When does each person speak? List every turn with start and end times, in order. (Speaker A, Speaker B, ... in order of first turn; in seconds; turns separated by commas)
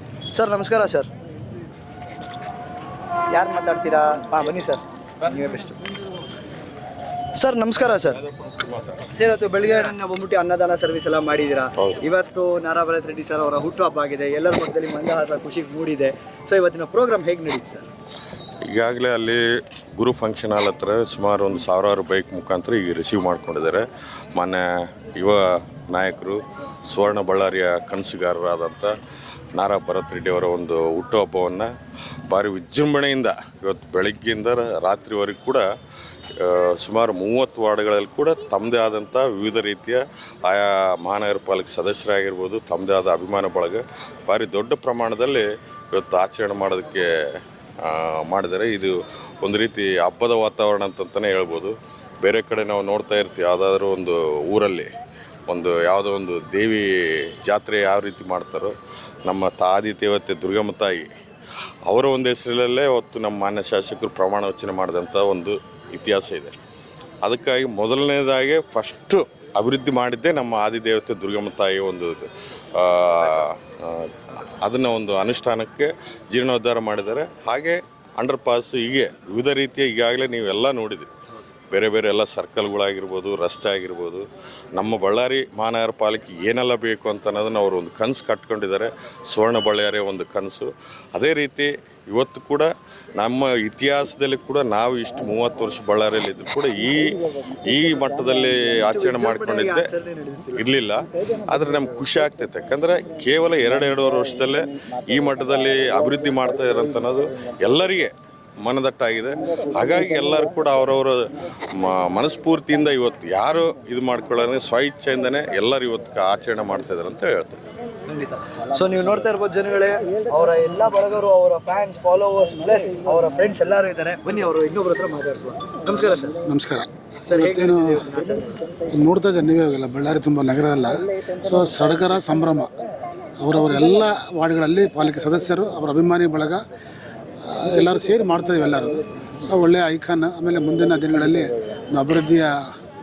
Speaker A: 0.3-1.1, Speaker A: 3.3-5.8, Speaker A: 7.3-8.2, Speaker A: 8.9-17.9, Speaker B: 18.7-28.9, Speaker B: 29.5-31.7, Speaker B: 32.3-35.6, Speaker B: 36.4-47.1, Speaker B: 47.8-54.9, Speaker B: 55.5-61.1, Speaker B: 61.8-66.5, Speaker B: 67.2-81.1, Speaker B: 81.7-99.9, Speaker A: 98.9-100.7, Speaker B: 100.5-117.6, Speaker A: 118.1-126.3, Speaker C: 126.5-128.0, Speaker A: 127.3-128.5, Speaker C: 128.9-132.7, Speaker C: 133.4-136.6, Speaker C: 137.4-142.7